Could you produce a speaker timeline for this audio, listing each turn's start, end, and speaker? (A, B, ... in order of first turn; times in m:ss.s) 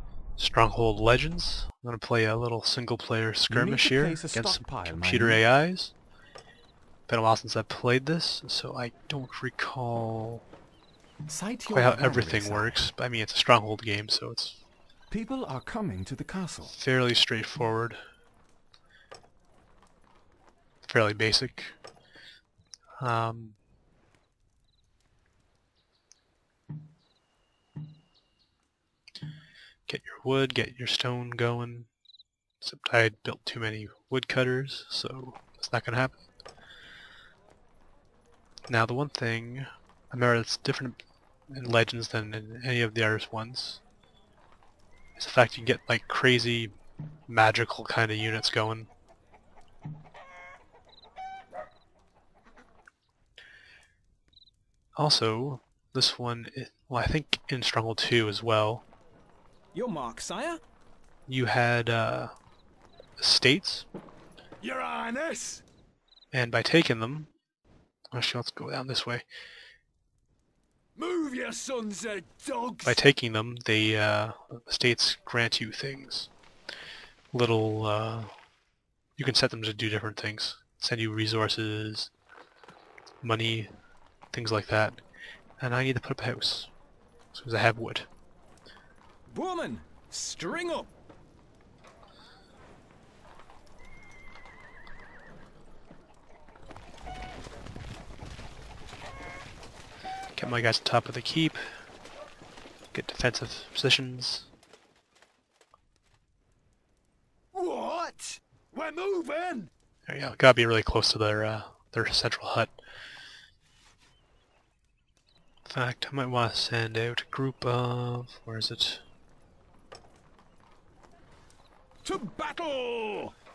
0:00.4-0:06.0 A
0:03.5-0:05.4 B
0:07.1-0:10.4 A
0:11.3-0:12.8 B
0:11.7-0:14.6 A
0:15.1-0:16.8 B
0:16.7-0:18.0 A
0:20.8-0:21.8 A
0:23.0-0:23.6 A
0:29.9-0:31.9 A
0:32.6-0:36.2 A
0:38.7-0:43.8 A
0:45.2-0:46.8 A
0:47.3-0:48.9 A
0:55.0-0:58.9 A
0:59.7-1:00.6 C
1:01.3-1:02.3 A
1:03.2-1:03.9 A
1:04.6-1:05.6 C
1:06.3-1:07.3 A
1:08.1-1:09.2 A
1:11.0-1:13.0 C
1:12.8-1:16.3 A
1:17.3-1:18.3 A
1:19.2-1:22.1 A
1:23.2-1:23.7 A
1:24.3-1:25.0 A
1:25.6-1:26.7 A
1:27.3-1:28.1 A
1:29.3-1:30.9 C
1:40.4-1:41.6 A
1:42.9-1:44.5 A
1:47.5-1:49.7 C
1:50.1-1:52.7 A
1:55.7-1:59.0 A
2:02.0-2:03.3 C